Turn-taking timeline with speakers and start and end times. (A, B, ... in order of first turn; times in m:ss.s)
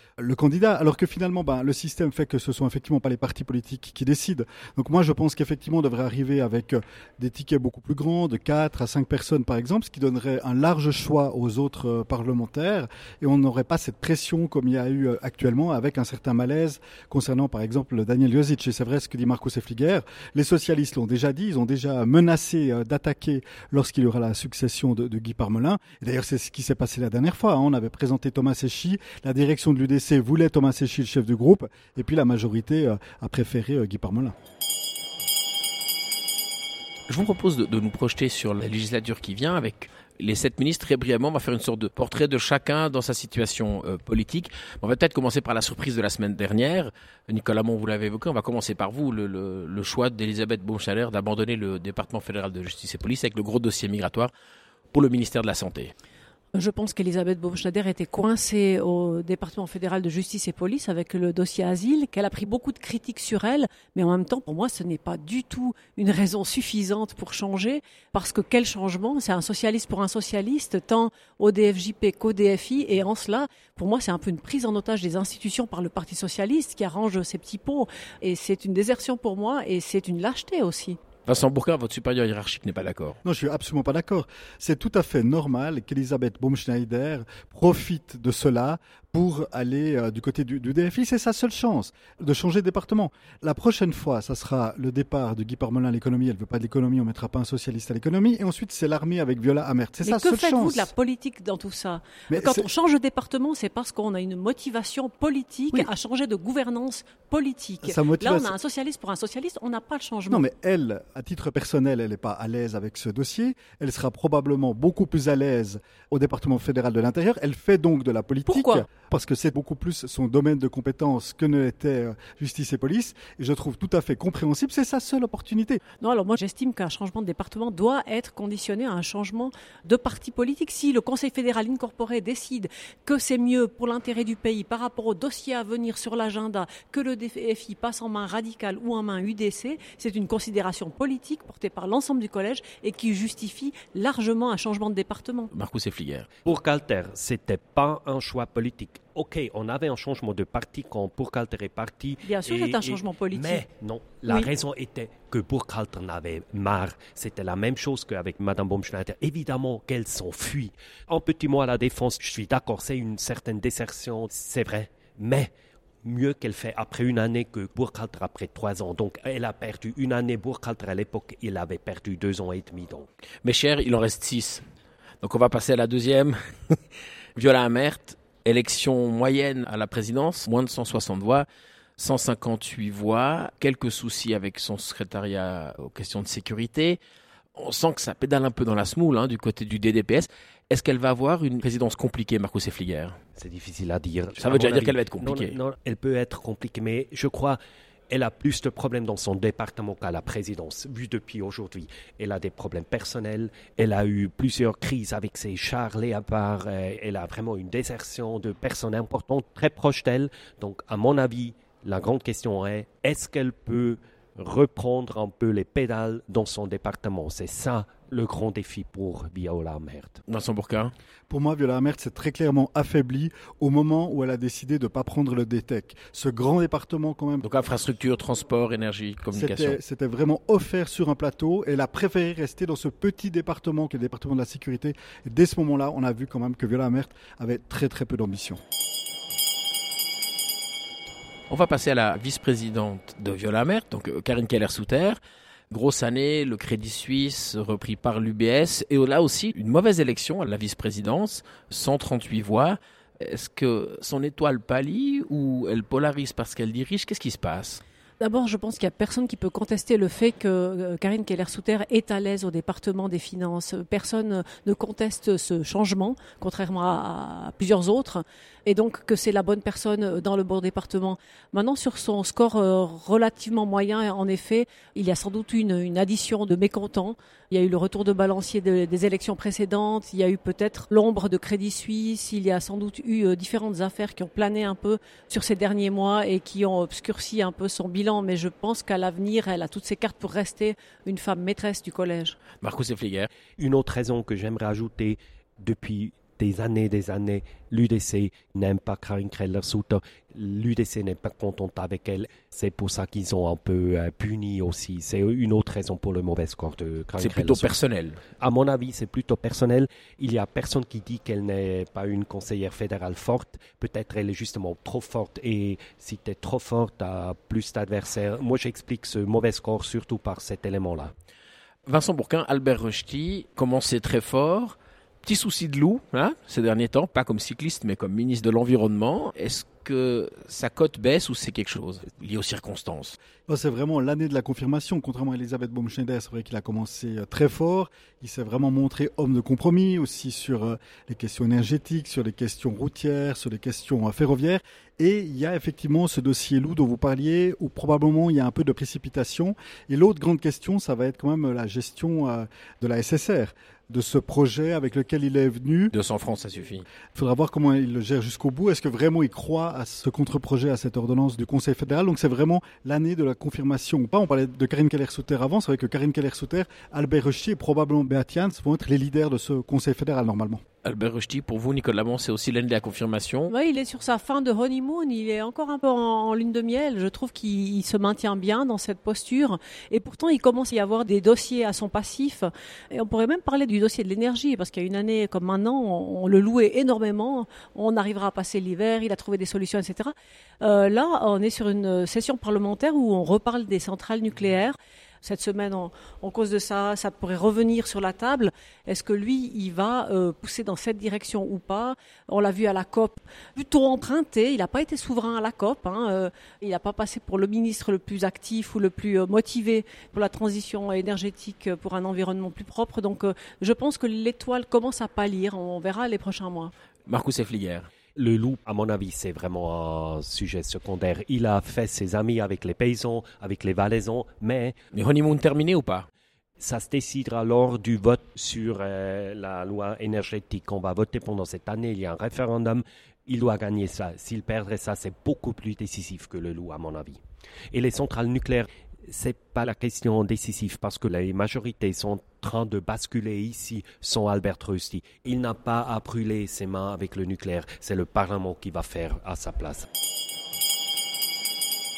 0:00.2-0:34.3 A
0:37.1-0:54.3 B
0:54.9-0:55.9 B
0:56.5-1:21.0 C
1:21.3-1:23.2 B
1:23.2-1:40.9 A
1:40.0-1:50.4 C
1:42.3-1:42.7 A
1:47.8-1:48.5 A
1:50.3-2:05.8 A
1:58.5-1:58.8 C
2:06.0-2:25.5 C
2:25.5-2:26.3 B
2:26.4-2:45.5 D
2:32.2-2:33.6 C
2:46.0-2:53.1 D
2:53.4-2:54.6 B
2:55.2-2:56.8 B
2:57.4-3:01.5 B
3:02.0-3:07.0 B
3:07.6-3:13.2 B
3:13.4-3:17.6 D
3:14.4-3:15.6 B
3:18.1-3:40.2 D
3:40.3-3:40.9 B
3:41.3-3:47.4 A
3:47.4-3:49.8 B
3:49.3-3:58.6 A
4:01.5-4:05.2 B
4:05.7-4:17.8 B
4:18.2-4:52.4 C
4:52.6-4:53.3 B
4:53.6-5:07.7 D
5:07.2-5:08.2 B
5:08.4-5:21.1 D
5:21.9-5:33.2 B
5:33.5-5:55.9 A
5:55.9-5:56.9 B
5:57.2-6:10.6 A
6:10.8-6:13.5 B
6:13.5-6:56.7 C
6:57.1-6:57.9 B
6:58.2-7:04.8 D
7:04.9-7:06.1 B
7:06.6-7:17.2 D
7:17.7-7:29.9 D